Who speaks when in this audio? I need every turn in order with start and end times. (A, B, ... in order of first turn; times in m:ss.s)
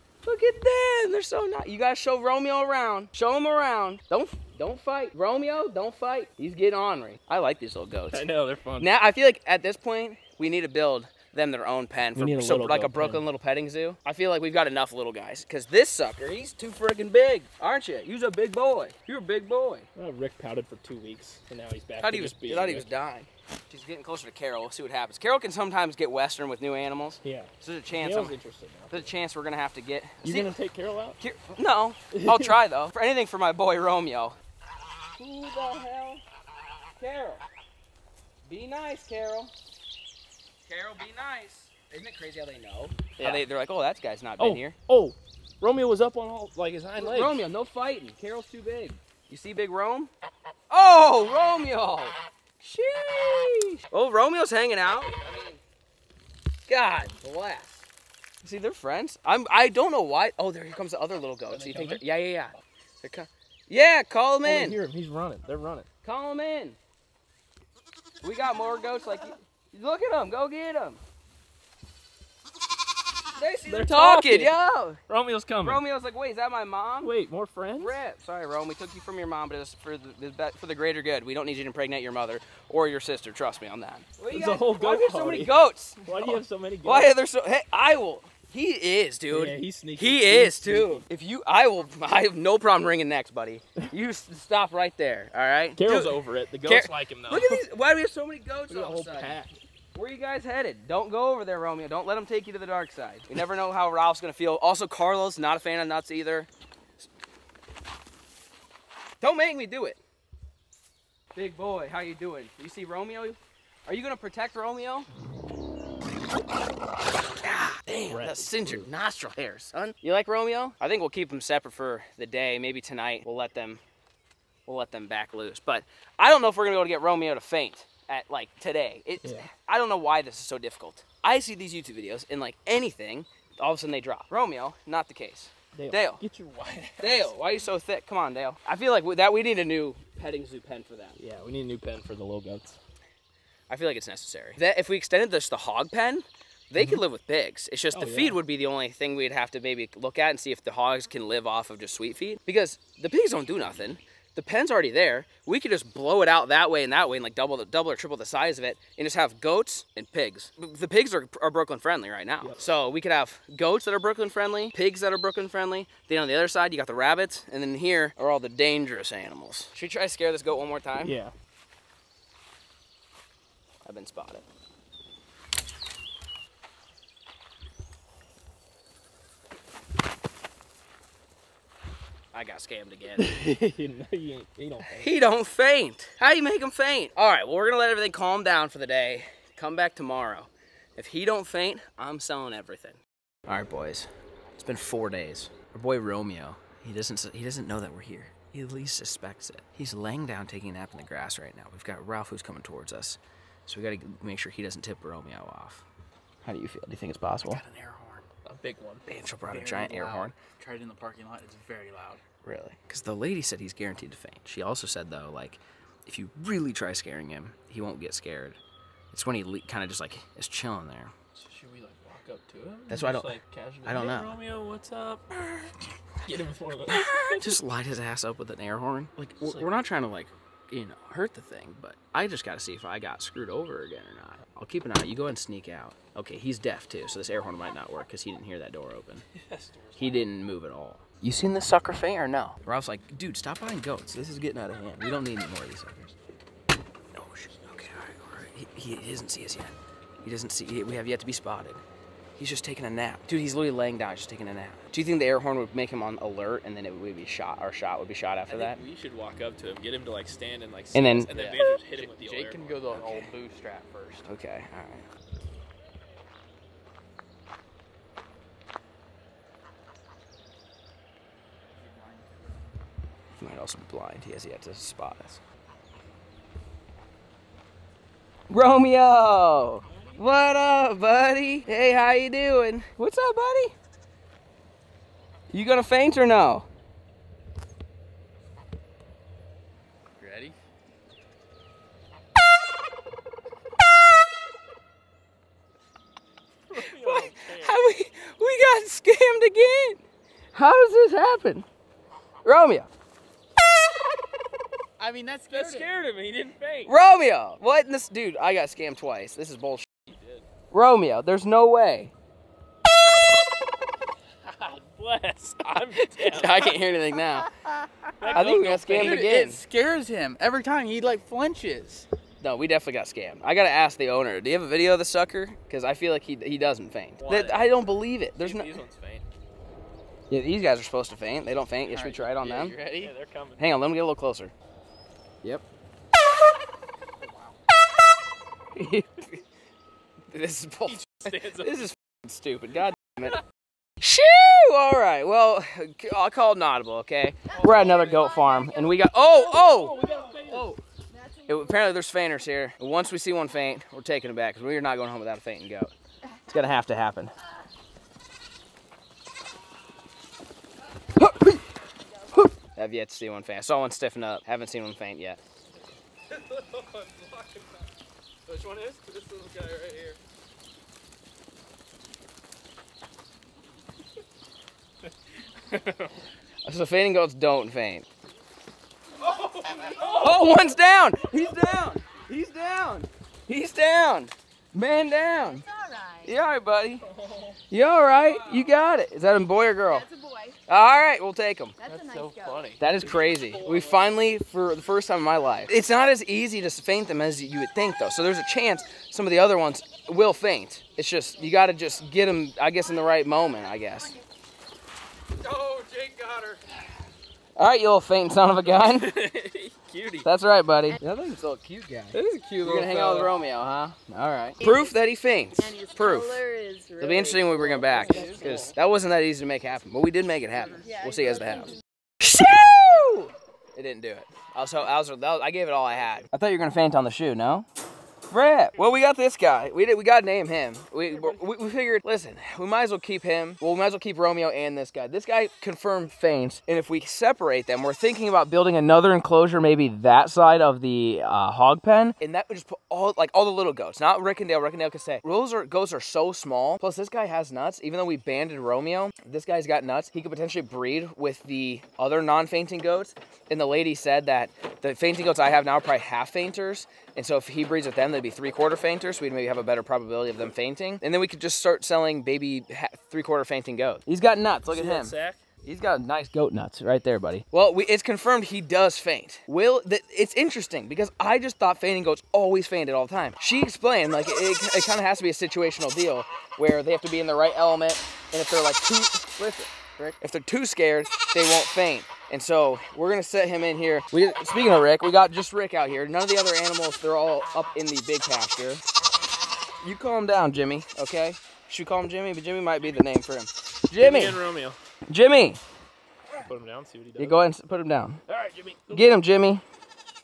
0:00.2-0:08.2 A
0:08.1-0:08.9 B
0:08.8-0:19.9 A
0:12.1-0:13.2 B
0:19.9-0:22.9 B
0:22.0-0:28.3 A
0:27.2-0:29.1 B
0:28.9-0:30.5 A
0:30.2-0:31.2 B
0:31.2-0:34.4 A
0:32.1-0:32.5 B
0:35.2-0:36.2 A
0:37.0-0:37.4 A
0:38.4-0:39.5 A
0:40.6-0:44.8 A
0:43.2-0:43.4 B
0:44.4-0:47.4 B
0:47.0-0:50.1 A
0:50.7-0:55.6 A
0:56.7-0:57.8 A
0:58.4-1:04.8 A
1:01.5-1:02.0 B
1:04.4-1:05.9 B
1:06.0-1:06.8 A
1:08.2-1:11.0 A
1:13.3-1:15.0 A
1:13.6-1:14.5 B
1:15.1-1:15.8 B
1:15.6-1:17.1 A
1:17.0-1:18.0 B
1:17.8-1:36.1 A
1:24.3-1:27.1 B
1:29.3-1:31.0 B
1:35.8-1:37.6 B
1:36.6-1:39.3 A
1:38.7-1:39.6 B
1:39.9-1:46.5 A
1:49.2-1:50.0 A
1:51.3-1:55.1 A
1:57.4-2:03.8 A
1:58.1-1:58.9 B
2:04.7-2:16.2 A
2:09.2-2:09.5 B
2:15.7-2:17.3 B
2:17.0-2:21.2 A
2:21.2-2:22.8 B
2:23.7-2:51.2 A
2:27.9-2:28.4 B
2:51.0-2:51.3 B
2:53.8-2:54.4 A
3:02.3-3:03.3 A
3:03.2-3:05.1 B
3:04.9-3:25.8 A
3:26.4-3:27.6 A
3:27.5-3:28.2 C
3:28.4-3:29.0 B
3:29.0-3:30.3 A
3:29.4-3:32.2 C
3:32.4-3:38.6 A
3:39.1-3:41.1 A
3:41.3-3:45.7 B
3:42.9-3:44.4 A
3:46.2-3:47.6 B
3:46.9-3:59.2 A
3:49.4-3:49.7 B
3:59.3-4:00.3 B
4:00.0-4:06.2 A
4:07.1-4:11.8 A
4:12.4-4:18.8 A
4:18.5-4:23.3 B
4:20.9-4:21.3 A
4:21.3-4:24.3 C
4:24.3-4:25.1 A
4:31.7-4:32.2 C
4:33.4-4:35.4 A
4:38.5-4:43.7 A
4:39.8-4:40.2 B
4:45.5-4:46.6 A
4:50.2-4:50.5 C
4:56.7-4:57.8 B
4:56.7-5:00.0 A
5:00.5-5:01.6 A
5:02.4-5:02.9 A
5:05.0-5:05.9 C
5:05.5-5:06.9 B
5:06.8-5:09.9 A
5:10.0-5:10.4 B
5:10.7-5:12.1 A
5:14.4-5:16.8 B
5:16.2-5:17.5 A
5:18.1-5:22.0 C
5:18.2-5:19.3 B
5:18.3-5:19.6 A
5:22.4-5:28.8 A
5:27.2-5:29.2 B
5:30.3-5:32.8 A
5:31.8-5:33.1 C
5:32.9-5:33.7 B
5:33.6-5:34.5 A
5:37.2-5:37.6 C
5:38.7-5:39.4 A
5:40.3-5:43.4 A
5:40.8-5:41.9 B
5:44.0-5:50.8 A
5:47.5-5:50.4 D
5:49.3-5:50.7 B
5:51.1-5:52.0 D
5:51.5-5:55.9 A
5:56.5-5:57.3 A
6:01.2-6:01.6 A
6:02.3-6:05.4 A
6:06.3-6:07.9 B
6:08.4-6:10.2 B
6:15.6-6:16.1 B
6:16.6-6:18.0 A
6:19.2-6:20.5 B
6:20.0-6:25.6 A
6:25.4-6:26.4 D
6:26.2-6:27.0 A
6:27.0-6:27.6 B
6:27.7-6:30.0 A
6:28.1-6:28.7 B
6:29.9-6:30.6 D
6:30.7-6:31.8 A
6:31.8-6:32.7 D
6:31.8-6:34.1 B
6:32.8-6:44.1 A
6:45.4-6:46.6 B
6:47.6-6:49.1 A
6:48.6-6:50.3 B
6:50.2-6:56.4 A
6:52.1-6:53.3 C
6:52.7-6:53.3 B
6:54.6-6:55.0 D
6:55.6-6:58.7 D
6:57.0-7:07.6 A
6:57.9-6:58.7 B
6:58.0-6:58.4 C
7:00.8-7:01.8 D
7:08.3-8:08.8 A
7:11.1-7:11.4 B
7:44.7-7:45.4 B
8:09.8-8:14.4 A
8:14.0-8:14.8 B
8:15.1-8:15.6 A
8:16.4-8:17.4 B
8:17.2-8:18.2 A
8:18.3-8:19.1 B
8:18.9-8:19.6 A